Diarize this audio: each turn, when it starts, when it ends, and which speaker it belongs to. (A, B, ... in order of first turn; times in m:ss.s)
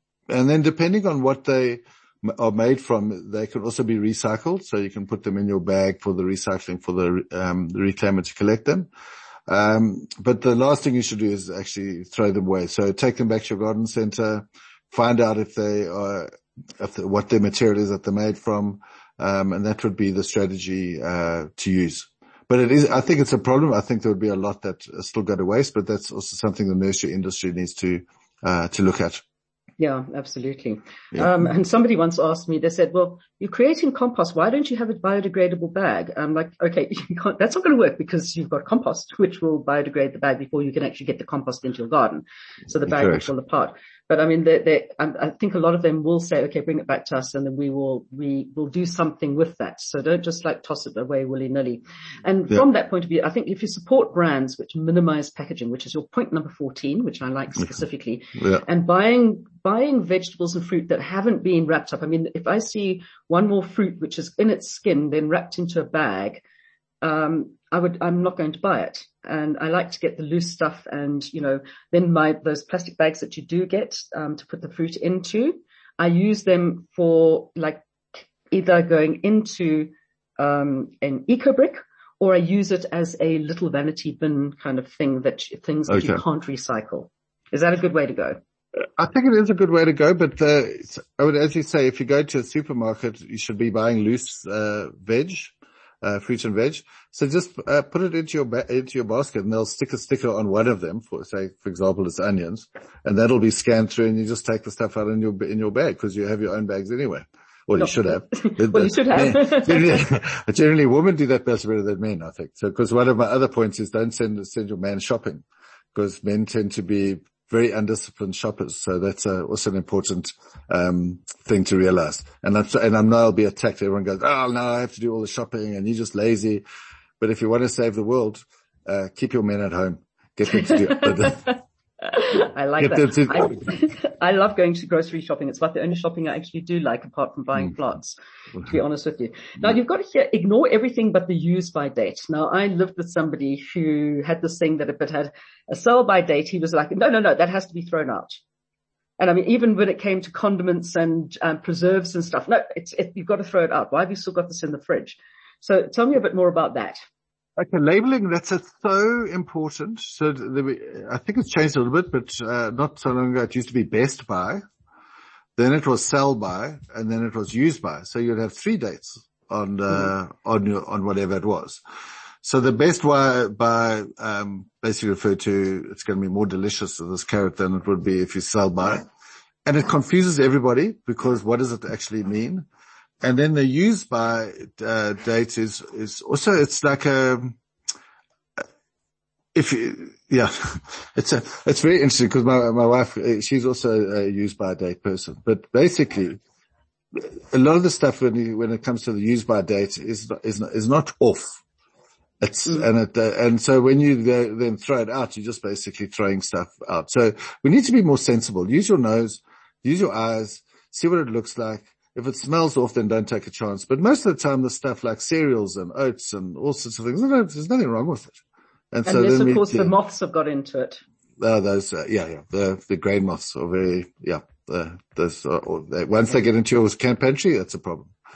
0:00.3-0:08.9 A
0:09.5-0:29.2 A
0:29.8-1:06.4 B
0:42.9-0:43.3 A
0:58.4-0:58.6 A
1:07.0-1:28.4 B
1:25.9-1:26.2 A
1:29.0-2:06.6 A
1:47.8-1:50.1 B
2:07.2-2:11.5 A
2:10.5-2:28.4 B
2:12.8-2:13.7 A
2:29.2-2:37.0 B
2:37.6-2:44.6 A
2:45.6-2:51.8 A
2:52.4-2:59.1 A
2:59.6-3:02.6 A
3:03.2-3:07.6 A
3:09.5-3:16.4 A
3:17.1-3:21.6 A
3:22.4-3:38.4 A
3:38.9-3:39.9 A
3:39.1-3:41.0 B
3:41.4-3:48.1 A